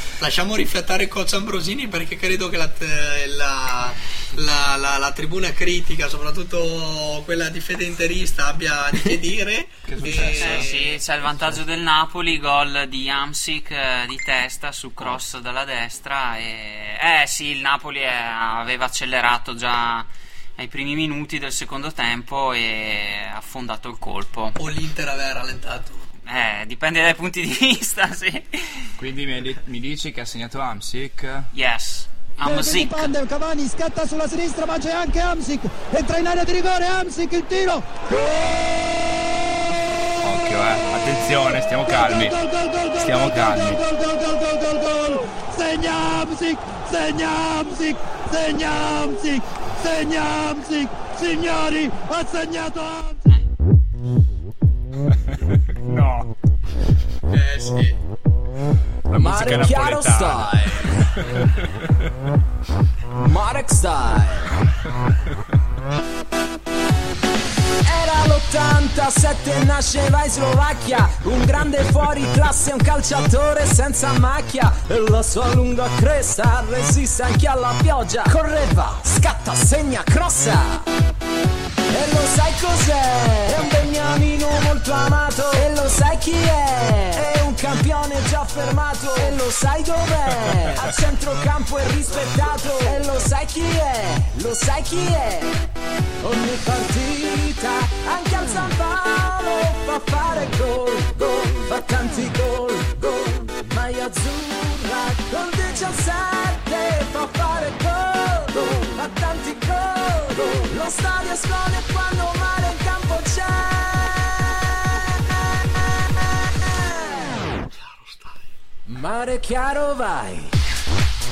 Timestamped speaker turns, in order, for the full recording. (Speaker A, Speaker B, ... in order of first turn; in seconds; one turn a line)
Speaker A: 0.2-10.9
Speaker B: 9.9-11.6
Speaker C: 10.4-24.6
Speaker A: 24.6-26.0
Speaker C: 26.3-28.9
Speaker B: 29.0-31.5
Speaker C: 31.5-33.1
Speaker D: 32.4-37.8
Speaker B: 40.2-42.4
Speaker D: 41.9-53.2
Speaker B: 43.0-43.8
Speaker B: 55.8-56.3
Speaker A: 57.3-58.0
Speaker B: 59.1-61.5
Speaker E: 59.1-61.0
Speaker E: 63.2-64.6
Speaker E: 67.8-80.8
Speaker E: 81.9-95.6
Speaker D: 89.1-89.4
Speaker E: 96.2-114.6
Speaker E: 116.8-117.4
Speaker A: 117.7-118.4
Speaker E: 118.9-120.6